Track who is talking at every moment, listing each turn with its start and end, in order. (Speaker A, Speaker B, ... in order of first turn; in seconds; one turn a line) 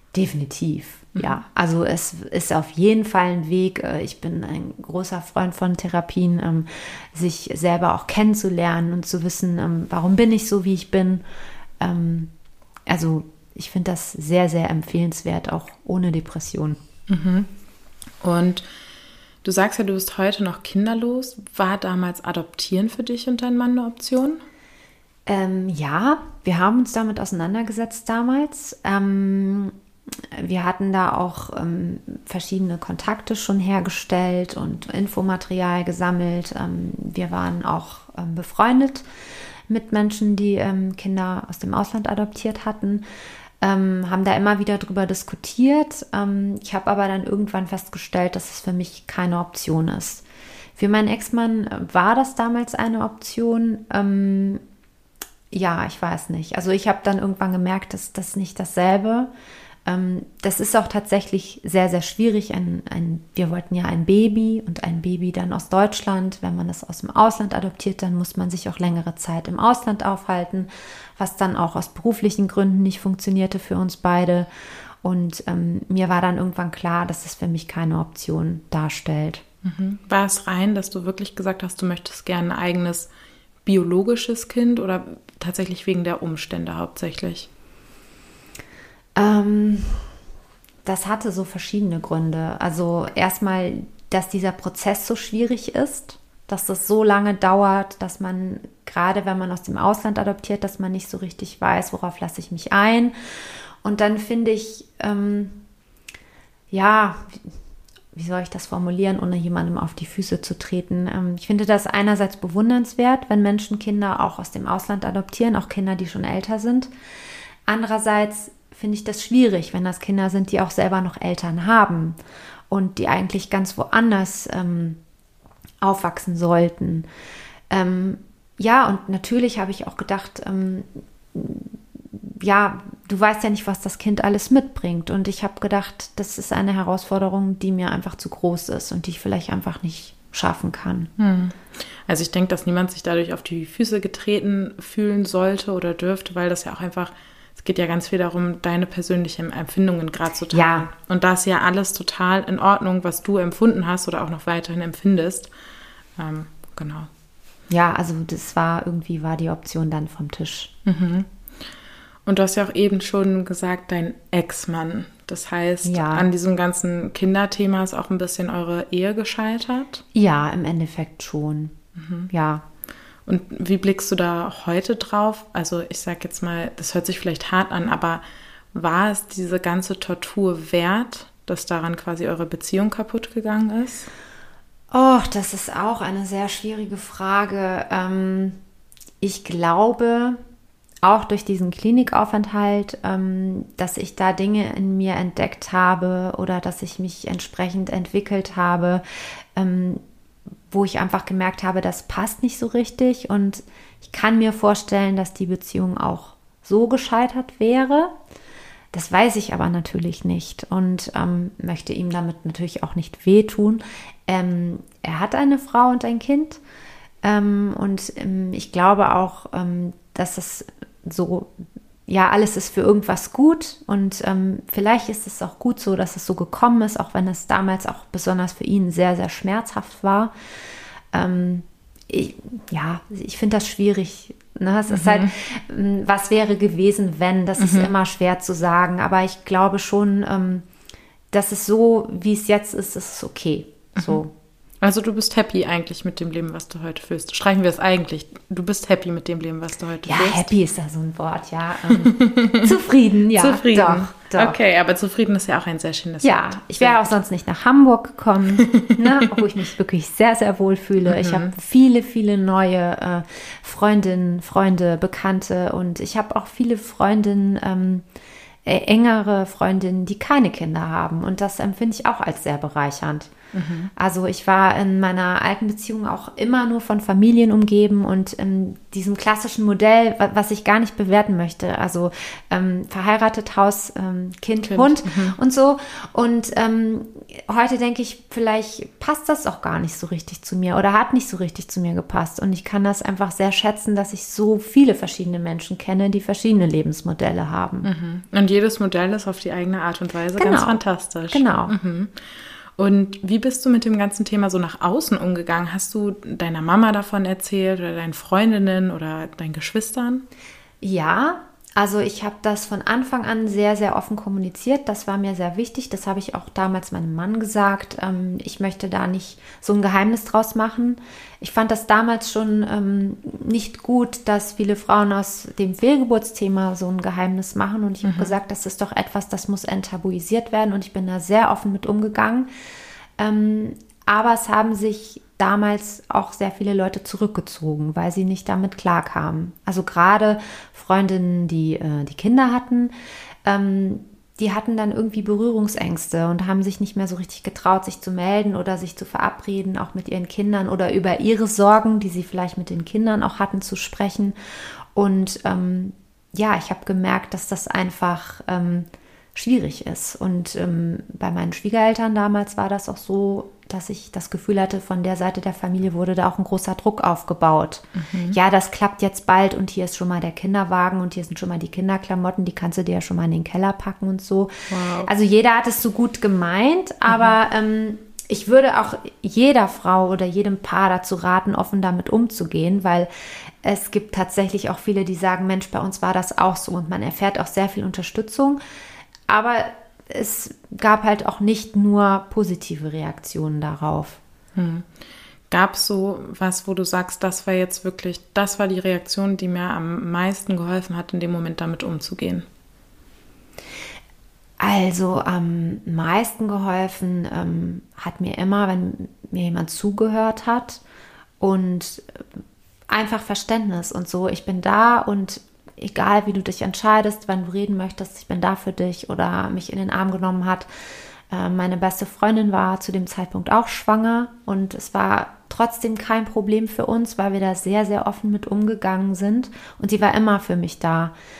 Speaker A: 0.1-11.2
Speaker A: 11.8-12.3
Speaker A: 12.9-16.8
Speaker B: 17.1-17.5
Speaker B: 18.2-18.6
Speaker B: 19.4-24.4
Speaker A: 25.3-29.7
Speaker A: 30.3-39.0
Speaker A: 39.7-43.0
Speaker A: 43.6-50.2
Speaker A: 50.8-54.6
Speaker A: 55.5-59.3
Speaker A: 59.9-74.5
Speaker A: 75.0-79.4
Speaker B: 79.6-83.1
Speaker B: 83.6-87.5
Speaker A: 89.2-90.1
Speaker A: 90.8-103.1
Speaker A: 103.8-105.6
Speaker A: 106.7-107.5
Speaker A: 108.1-116.9
Speaker A: 117.7-122.2
Speaker A: 122.7-125.0
Speaker A: 125.8-127.1
Speaker A: 127.7-141.1
Speaker B: 141.2-155.5
Speaker A: 150.5-150.9
Speaker B: 156.2-157.1
Speaker A: 157.7-160.7
Speaker B: 160.8-161.3
Speaker B: 162.2-170.0
Speaker A: 165.8-166.3
Speaker A: 170.1-171.7
Speaker B: 171.9-172.3
Speaker A: 172.3-172.6
Speaker B: 173.2-184.1
Speaker A: 184.9-188.6
Speaker A: 189.2-190.4
Speaker A: 191.0-199.0
Speaker A: 199.6-200.0
Speaker A: 200.7-208.1
Speaker A: 208.9-216.6
Speaker A: 217.2-221.5
Speaker A: 222.1-230.3
Speaker A: 231.1-240.7
Speaker B: 234.9-235.3
Speaker B: 237.6-237.9
Speaker A: 241.3-244.3
Speaker B: 244.0-244.2
Speaker B: 244.8-250.5
Speaker A: 250.0-254.6
Speaker B: 251.9-252.7
Speaker B: 253.3-257.0
Speaker A: 256.2-268.0
Speaker B: 258.7-259.0
Speaker B: 261.1-261.5
Speaker A: 268.6-273.3
Speaker B: 273.5-273.9
Speaker A: 273.9-297.9
Speaker B: 284.6-285.4
Speaker B: 297.8-310.2
Speaker A: 300.4-301.7
Speaker A: 310.8-332.5
Speaker B: 328.0-328.4
Speaker A: 333.2-342.9
Speaker A: 343.4-354.4
Speaker A: 354.9-383.1
Speaker B: 367.9-368.4
Speaker B: 374.7-375.1
Speaker B: 377.1-377.3
Speaker A: 383.6-388.6
Speaker A: 389.3-394.2
Speaker B: 394.6-394.9
Speaker B: 395.5-402.4
Speaker A: 404.6-410.8
Speaker A: 411.4-412.2
Speaker A: 412.9-420.7
Speaker A: 421.3-431.1